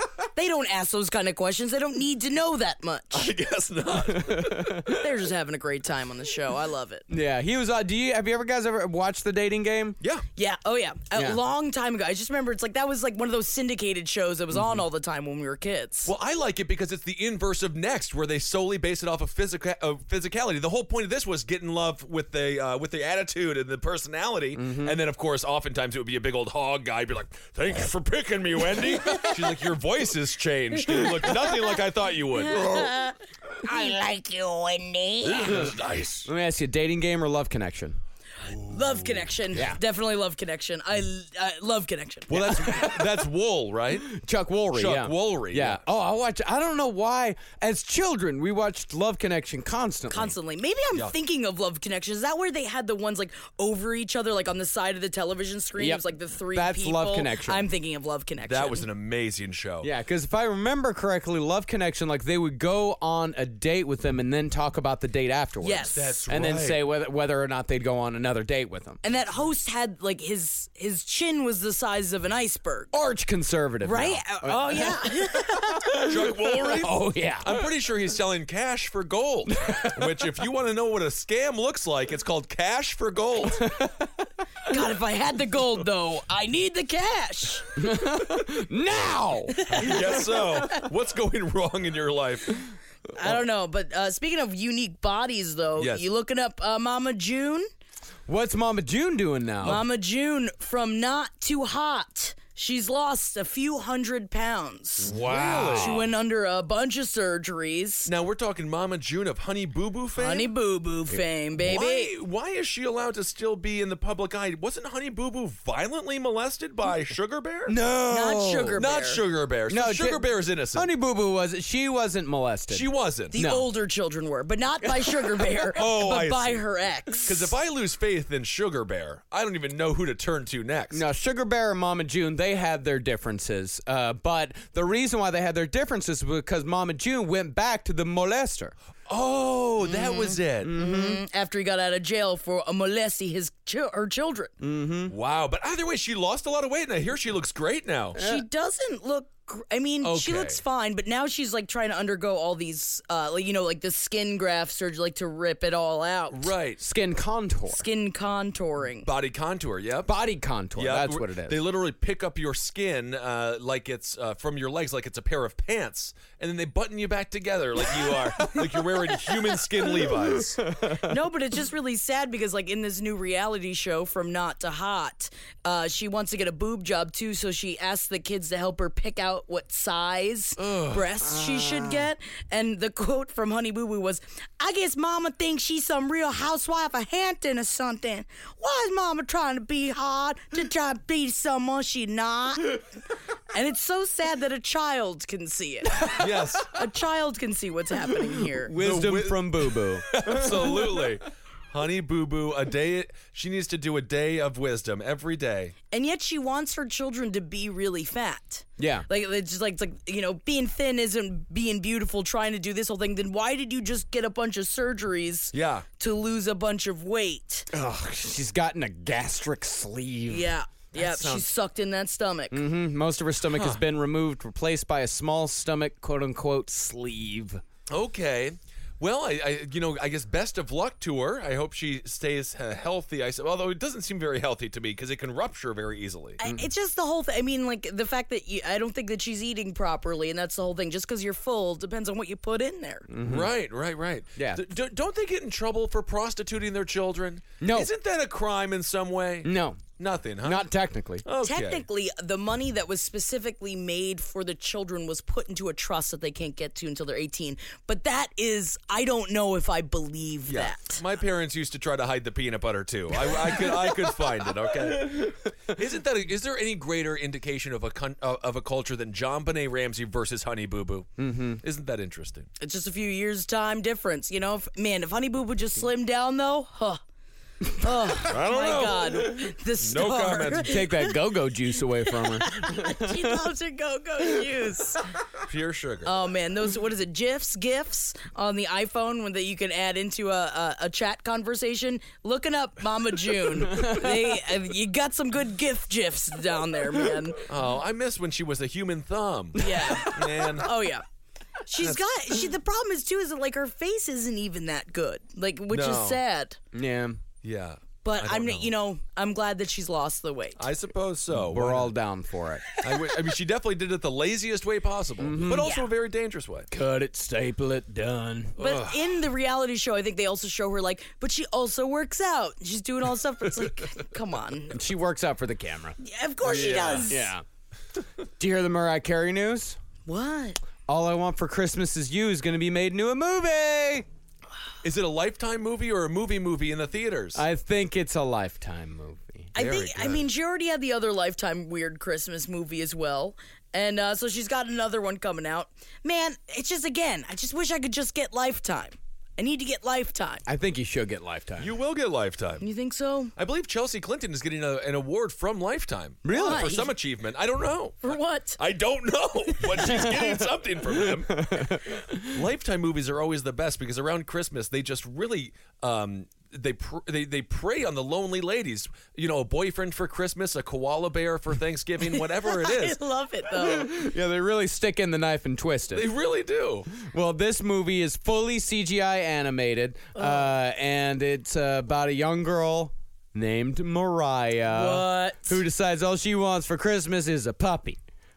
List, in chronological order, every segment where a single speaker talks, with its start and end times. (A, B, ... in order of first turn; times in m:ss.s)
0:00.4-0:03.3 A
0:03.1-0:04.8 B
0:04.1-0:05.0 C
0:04.9-0:07.0 A
0:07.1-0:10.0 C
0:10.0-0:10.3 B
0:10.4-0:16.1 A
0:11.2-0:11.4 C
0:16.1-0:32.9 B
0:24.6-0:25.0 C
0:30.9-0:31.8 A
0:32.3-0:35.6 A
0:35.2-0:36.3 B
0:36.2-0:38.0 C
0:38.5-0:39.3 B
0:38.7-0:42.6 A
0:39.5-0:39.8 C
0:42.3-0:44.1 B
0:42.3-0:43.2 C
0:44.0-0:50.4 C
0:44.7-0:45.8 B
0:50.1-0:58.9 A
0:55.8-0:57.7 C
0:58.5-0:59.9 B
0:59.8-1:09.0 C
1:05.6-1:06.2 A
1:06.0-1:06.8 B
1:09.0-1:12.9 A
1:12.9-1:17.8 C
1:13.8-1:16.1 A
1:16.0-1:23.7 B
1:19.5-1:20.3 C
1:23.5-1:24.1 C
1:24.7-1:27.7 A
1:27.8-1:29.9 C
1:29.7-1:32.6 B
1:29.7-1:30.8 A
1:33.1-1:37.7 A
1:35.8-1:36.0 B
1:38.3-1:39.8 C
1:39.6-1:45.1 A
1:45.0-1:46.1 B
1:45.0-1:46.1 C
1:45.7-1:48.1 A
1:48.1-1:50.5 B
1:50.2-1:52.1 A
1:51.6-1:57.8 B
1:57.7-1:58.8 C
1:58.1-1:59.2 A
1:58.8-2:00.9 B
1:59.7-2:03.7 C
2:02.7-2:03.4 B
2:03.3-2:07.6 A
2:05.7-2:06.6 B
2:07.3-2:11.0 B
2:10.9-2:18.8 C
2:19.1-2:20.7 B
2:19.8-2:24.5 A
2:20.6-2:21.2 C
2:24.6-2:25.2 C
2:25.1-2:28.2 B
2:28.2-2:28.4 C
2:28.2-2:36.5 A
2:30.0-2:30.6 B
2:36.3-2:36.8 B
2:36.8-2:37.9 C
2:37.7-2:39.1 A
2:39.0-2:40.1 B
2:40.1-2:41.6 C
2:40.8-2:50.6 B
2:50.1-2:51.2 C
2:51.0-3:12.8 A
3:00.6-3:01.1 B
3:01.4-3:02.0 C
3:13.5-3:18.8 A
3:16.1-3:16.7 B
3:18.5-3:21.2 C
3:18.8-3:25.8 B
3:25.9-3:37.7 A
3:28.8-3:29.1 C
3:35.5-3:35.9 B
3:37.7-3:40.5 C
3:40.3-3:42.6 A
3:40.9-3:41.4 B
3:42.5-3:47.6 C
3:43.5-3:43.8 B
3:47.9-3:56.4 B
3:56.4-4:03.1 A
4:03.1-4:03.5 C
4:03.2-4:10.7 B
4:04.4-4:04.6 C
4:07.6-4:07.9 C
4:09.4-4:09.8 C
4:10.4-4:11.2 C
4:11.2-4:11.8 B
4:11.4-4:21.0 A
4:20.5-4:32.5 B
4:23.7-4:24.0 C
4:25.0-4:25.4 C
4:31.2-4:31.6 C
4:32.6-4:37.0 A
4:37.7-4:41.3 A
4:38.2-4:40.8 B
4:40.6-4:43.4 C
4:42.0-4:45.0 A
4:45.4-4:46.1 B
4:46.0-4:57.4 A
4:53.7-4:54.2 C
4:57.5-5:00.7 B
4:59.6-5:01.0 A
4:59.7-5:00.3 C
5:01.7-5:06.6 A
5:05.7-5:06.2 B
5:06.7-5:07.2 C
5:07.4-5:08.7 B
5:08.0-5:10.7 A
5:10.6-5:11.9 B
5:11.3-5:12.7 C
5:12.8-5:16.7 B
5:15.2-5:15.7 C
5:15.4-5:15.9 A
5:16.7-5:18.6 C
5:18.6-5:19.2 B
5:18.6-5:24.8 A
5:24.7-5:26.0 C
5:26.0-5:27.3 A
5:26.4-5:27.2 B
5:26.6-5:27.4 C
5:28.4-5:29.8 C
5:30.1-5:30.6 A
5:30.9-5:34.1 C
5:34.8-5:37.4 B
5:37.3-5:39.5 C
5:39.6-5:40.3 B
5:39.6-5:50.5 A
5:50.5-5:51.8 C
5:51.6-5:52.7 B
5:52.6-5:53.4 A
5:53.4-6:13.0 B
5:56.2-5:56.7 C
5:56.3-5:57.0 A
5:58.0-5:58.6 A
5:59.7-6:00.0 A
5:59.8-6:02.4 C
6:12.0-6:14.0 A
6:13.5-6:16.1 C
6:15.9-6:16.9 B
6:16.9-6:28.0 C
6:20.2-6:20.5 A
6:24.7-6:25.6 A